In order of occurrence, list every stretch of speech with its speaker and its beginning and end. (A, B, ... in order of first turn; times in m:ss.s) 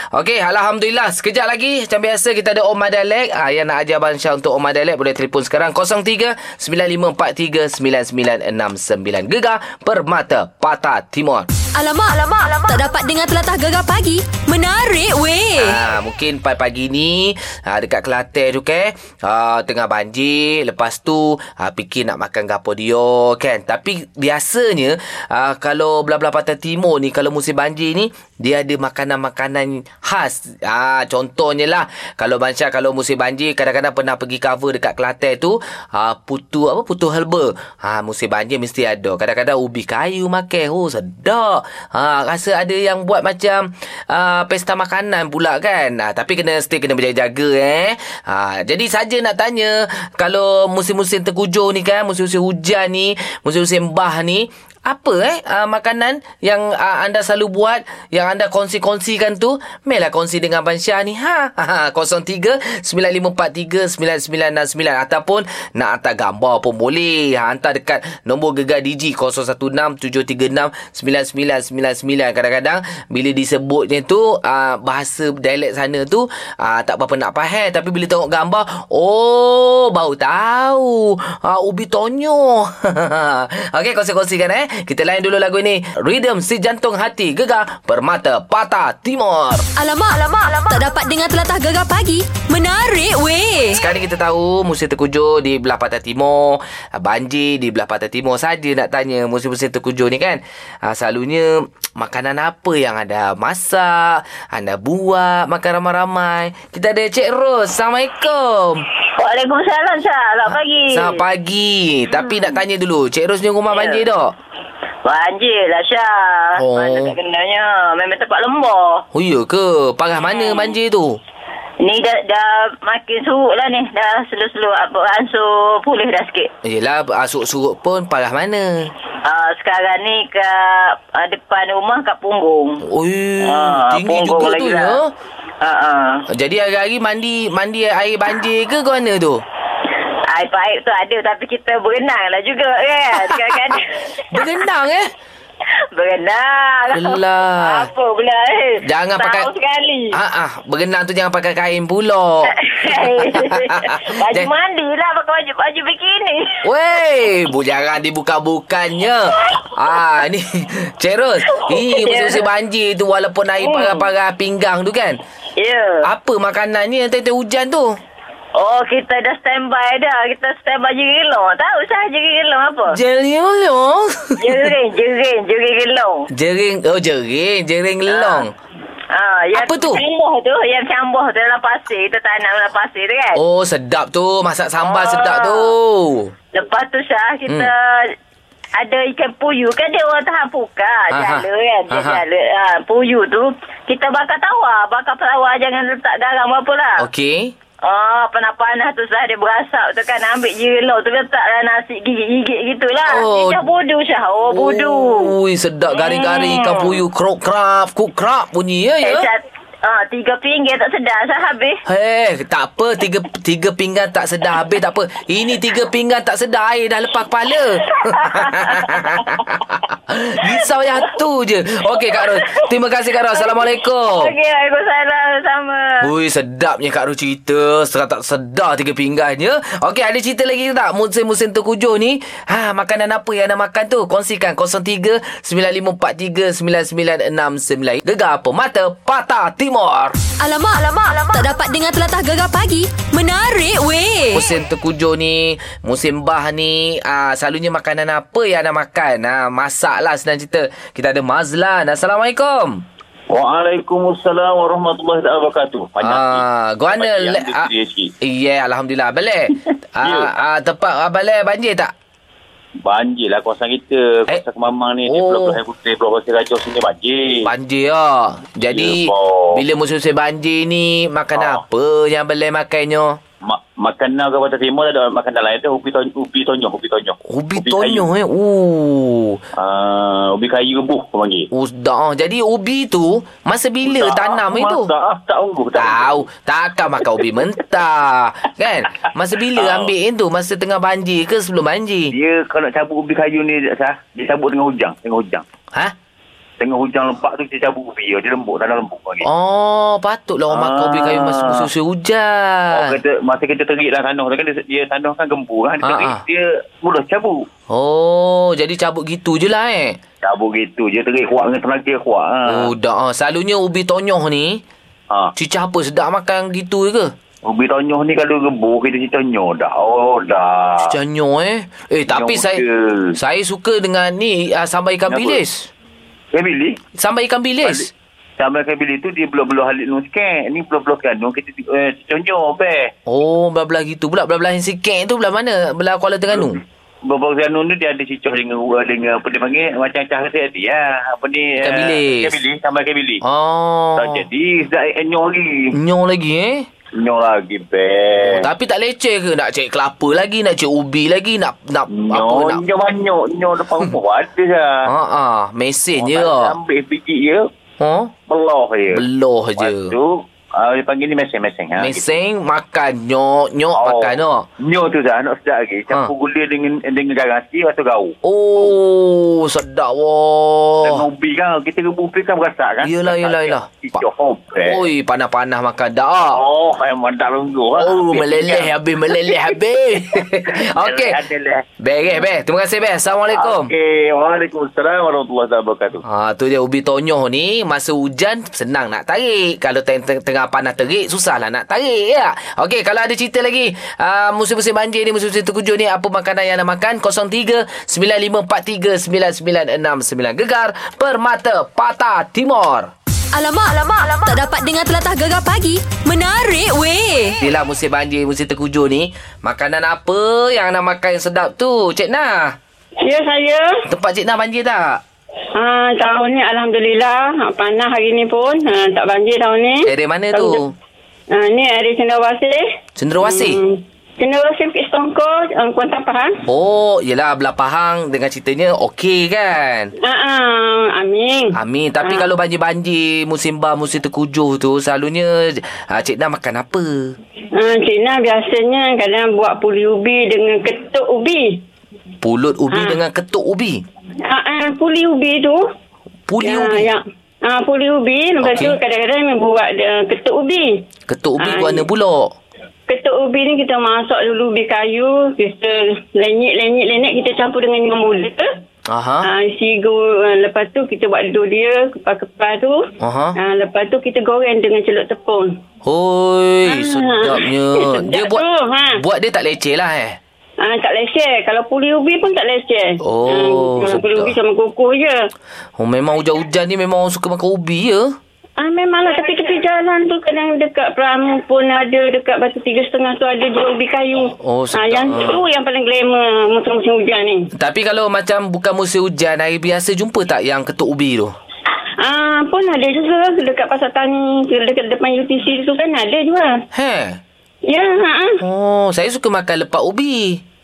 0:00.1-0:11.5 A
0:11.7-0:15.8 B
0:15.6-1:29.6 A
1:29.8-1:33.8 B
1:33.7-1:48.8 A
1:49.2-1:51.2 C
1:50.5-1:54.3 A
1:52.3-1:52.5 C
1:53.7-1:54.0 C
1:55.0-1:59.0 C
1:56.6-1:57.1 A
1:59.1-2:01.2 A
2:00.3-2:00.7 C
2:01.8-2:06.5 C
2:06.6-2:08.9 A
2:09.2-2:12.8 C
2:12.9-2:15.1 A
2:13.5-2:14.9 C
2:15.6-2:16.2 C
2:16.3-2:19.4 A
2:20.3-2:24.4 C
2:23.2-2:23.8 A
2:24.3-2:25.0 A
2:25.9-2:30.2 C
2:26.9-2:27.9 A
2:28.8-2:29.5 A
2:30.1-2:34.5 A
2:32.5-2:36.6 C
2:36.6-2:45.2 A
2:41.5-2:42.4 C
2:43.6-2:44.0 C
2:45.6-2:46.0 C
2:46.0-2:47.9 A
2:48.6-2:52.9 C
2:52.9-2:54.7 A
2:54.4-2:56.3 C
2:56.3-2:58.5 A
2:58.1-2:58.5 C
2:59.1-3:03.4 C
2:59.5-3:00.0 A
3:03.3-3:06.3 A
3:04.8-3:05.7 C
3:06.5-3:08.1 C
3:08.8-3:17.0 C
3:11.1-3:12.2 A
3:17.0-3:17.5 A
3:17.8-3:25.3 C
3:23.0-3:23.6 A
3:24.5-3:29.3 A
3:25.9-3:27.0 C
3:29.0-3:31.8 C
3:31.9-3:44.3 A
3:38.1-3:39.4 C
3:42.1-3:42.4 C
3:43.3-3:46.0 C
3:46.0-4:00.2 A
4:00.4-4:04.4 B
4:04.3-4:12.8 A
4:13.3-4:16.4 D
4:16.0-4:17.7 A
4:16.9-4:18.1 D
4:18.2-4:21.9 A
4:20.0-4:20.3 D
4:22.8-4:27.5 D
4:25.0-4:25.6 A
4:27.4-4:33.2 A
4:28.6-4:29.6 D
4:31.3-4:31.6 D
4:33.4-4:38.0 D
4:37.3-4:39.4 A
4:39.6-4:41.5 D
4:41.5-4:44.9 A
4:43.8-4:46.2 D
4:45.7-4:52.1 A
4:49.6-4:49.9 D
4:52.1-4:55.4 D
4:56.6-4:59.2 D
4:59.2-5:03.0 A
5:00.5-5:01.7 D
5:02.7-5:07.5 D
5:05.8-5:06.2 A
5:07.7-5:10.0 A
5:10.2-5:12.7 D
5:12.4-5:14.6 A
5:15.3-5:17.1 A
5:17.4-5:20.9 D
5:20.8-5:22.6 A
5:22.1-5:23.2 D
5:23.2-5:25.7 A
5:25.1-5:25.4 D
5:26.3-5:26.8 D
5:27.0-5:27.9 A
5:28.4-5:32.9 D
5:33.0-5:36.6 A
5:36.3-5:43.2 D
5:41.6-5:42.3 A
5:43.2-5:44.2 A
5:44.0-5:45.7 D
5:45.7-5:46.7 A
5:46.9-5:48.5 D
5:48.2-5:52.6 A
5:51.9-5:54.9 D
5:54.8-5:56.6 A
5:55.9-5:57.5 D
5:57.8-5:58.1 A
5:58.3-5:59.0 D
5:58.9-6:00.0 A
5:59.6-6:02.1 D
6:01.8-6:04.4 A
6:03.7-6:08.1 D
6:08.2-6:11.1 A
6:10.8-6:14.8 D
6:12.8-6:14.0 A
6:14.6-6:16.4 A
6:16.3-6:19.5 D
6:17.8-6:21.2 A
6:20.5-6:21.6 D
6:21.8-6:23.7 A
6:23.3-6:26.0 D
6:26.1-6:42.9 A
6:43.3-6:47.3 B
6:47.4-6:52.6 A
6:53.0-6:53.6 E
6:53.9-6:55.0 A
6:55.5-7:00.6 E
6:59.8-7:00.7 A
7:01.3-7:02.6 E
7:03.0-7:03.6 A
7:03.2-7:06.3 E
7:06.4-7:09.9 A
7:10.0-7:12.3 E
7:11.5-7:17.2 A
7:17.6-7:21.6 E
7:22.2-7:23.8 A
7:22.7-7:23.0 E
7:24.3-7:25.6 E
7:26.3-7:26.9 A
7:26.4-7:30.8 E
7:28.4-7:28.8 A
7:31.1-7:32.3 A
7:31.4-7:31.8 E
7:32.9-7:38.4 E
7:38.9-7:39.3 A
7:39.2-7:42.8 E
7:43.0-7:43.4 A
7:43.4-7:45.5 E
7:45.8-7:50.2 A
7:46.7-7:49.0 E
7:50.6-7:55.1 E
7:53.0-7:54.4 A
7:55.8-7:58.2 A
7:58.6-8:07.4 E
8:04.3-8:05.4 A
8:07.5-8:11.3 A
8:12.0-8:16.5 E
8:16.7-8:17.2 A
8:17.7-8:18.4 E
8:18.4-8:20.4 A